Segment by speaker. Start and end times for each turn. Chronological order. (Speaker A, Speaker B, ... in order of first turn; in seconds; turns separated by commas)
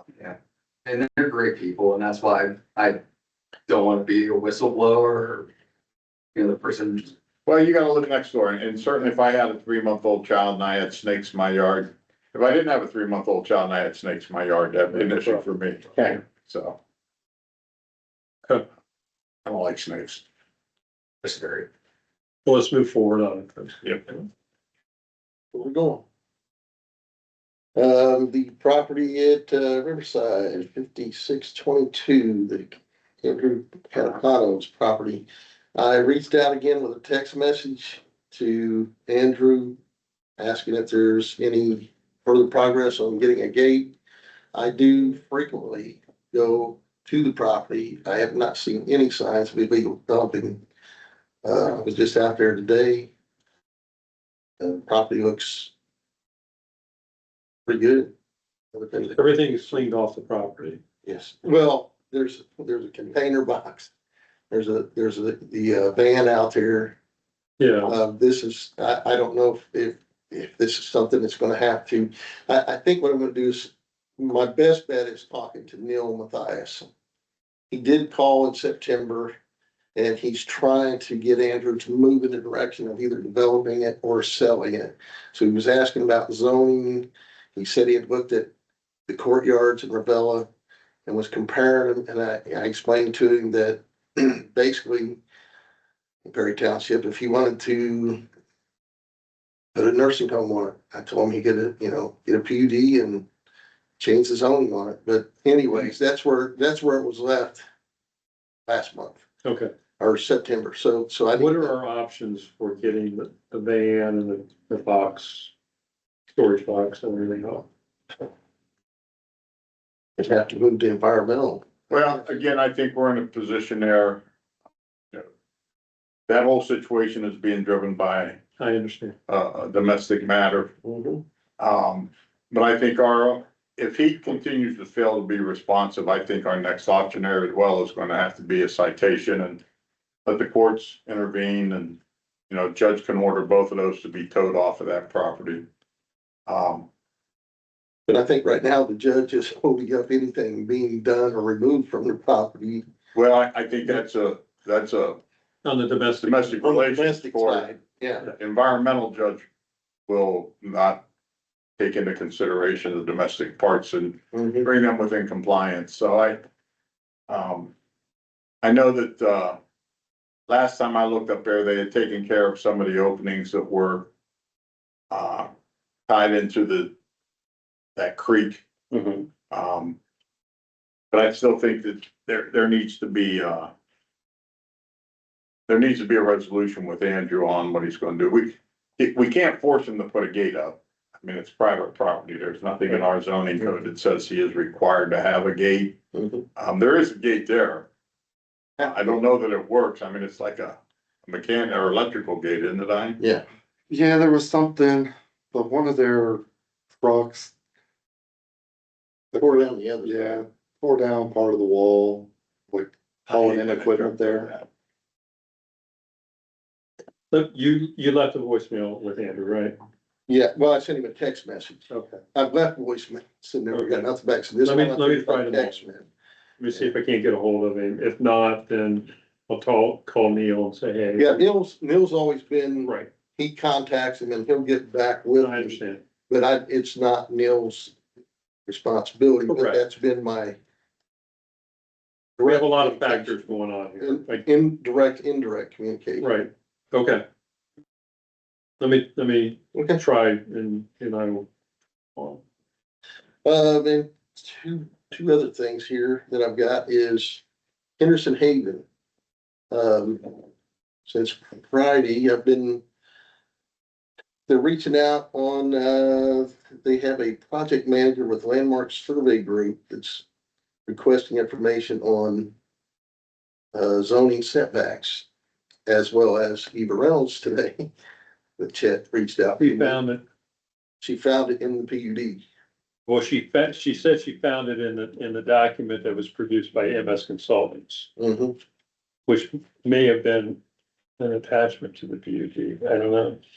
Speaker A: 0.8-3.0, Speaker A: 3.7-5.5, Speaker A: 6.4-7.1, Speaker B: 7.5-16.8, Speaker C: 14.9-15.5, Speaker B: 19.4-20.2, Speaker A: 21.2-21.6, Speaker C: 22.4-24.2, Speaker D: 25.5-26.0, Speaker D: 27.8-39.8, Speaker D: 40.4-43.9, Speaker D: 44.5-50.6, Speaker D: 51.4-53.1, Speaker D: 54.6-55.7, Speaker D: 57.7-58.1, Speaker D: 58.7-59.8, Speaker C: 59.1-60.8, Speaker D: 61.0-63.9, Speaker D: 64.5-67.0, Speaker C: 67.6-68.0, Speaker D: 67.8-76.9, Speaker D: 77.7-79.3, Speaker D: 80.0-88.5, Speaker D: 89.1-90.5, Speaker D: 91.1-95.2, Speaker D: 96.2-98.2, Speaker D: 99.8-103.3, Speaker D: 104.0-107.6, Speaker D: 108.7-109.2, Speaker C: 109.4-109.7, Speaker D: 110.0-111.8, Speaker C: 111.3-115.5, Speaker C: 116.3-117.7, Speaker D: 120.2-122.0, Speaker B: 121.9-124.2, Speaker B: 126.3-128.4, Speaker C: 128.6-129.2, Speaker B: 129.3-130.7, Speaker D: 130.8-131.2, Speaker B: 131.6-139.6, Speaker B: 140.2-142.0, Speaker B: 142.5-145.6, Speaker B: 146.5-146.9, Speaker D: 148.1-152.8, Speaker B: 153.1-155.2, Speaker C: 155.6-156.6, Speaker B: 156.2-157.7, Speaker D: 156.3-158.3, Speaker B: 158.2-159.4, Speaker B: 160.1-161.0, Speaker B: 161.8-166.4, Speaker D: 164.3-164.7, Speaker B: 167.3-167.7, Speaker B: 168.6-169.6, Speaker B: 170.5-174.1, Speaker B: 175.1-175.5, Speaker B: 176.1-176.9, Speaker B: 177.9-178.6, Speaker C: 178.9-179.3, Speaker B: 179.5-179.9, Speaker B: 181.1-183.7, Speaker B: 185.7-195.9, Speaker D: 196.1-196.4, Speaker B: 196.6-197.9, Speaker D: 198.8-199.2, Speaker B: 198.8-203.2, Speaker D: 203.2-203.4, Speaker E: 203.9-206.4, Speaker E: 207.0-207.5, Speaker E: 209.3-214.6, Speaker D: 209.4-210.4, Speaker B: 213.7-214.5, Speaker C: 217.3-219.8, Speaker D: 220.3-226.1, Speaker C: 221.9-222.2, Speaker C: 223.7-224.1, Speaker C: 224.6-225.8, Speaker C: 226.6-231.4, Speaker D: 231.2-237.9, Speaker C: 232.8-233.1, Speaker C: 235.4-236.0, Speaker D: 238.7-240.6, Speaker C: 239.5-239.8, Speaker D: 242.4-243.4, Speaker C: 242.4-244.4, Speaker D: 244.0-246.3, Speaker C: 246.2-247.2, Speaker C: 248.8-251.5, Speaker D: 249.7-250.0, Speaker C: 252.2-252.4, Speaker D: 253.4-257.4, Speaker D: 258.0-258.8, Speaker D: 259.7-260.4, Speaker D: 261.1-262.8, Speaker D: 264.5-270.2, Speaker D: 270.9-272.5, Speaker D: 273.7-275.2, Speaker D: 275.9-277.9, Speaker D: 278.6-280.0, Speaker C: 279.6-280.2, Speaker D: 281.0-282.4, Speaker C: 283.1-288.1, Speaker D: 288.2-288.6, Speaker C: 289.3-290.6, Speaker C: 291.2-293.4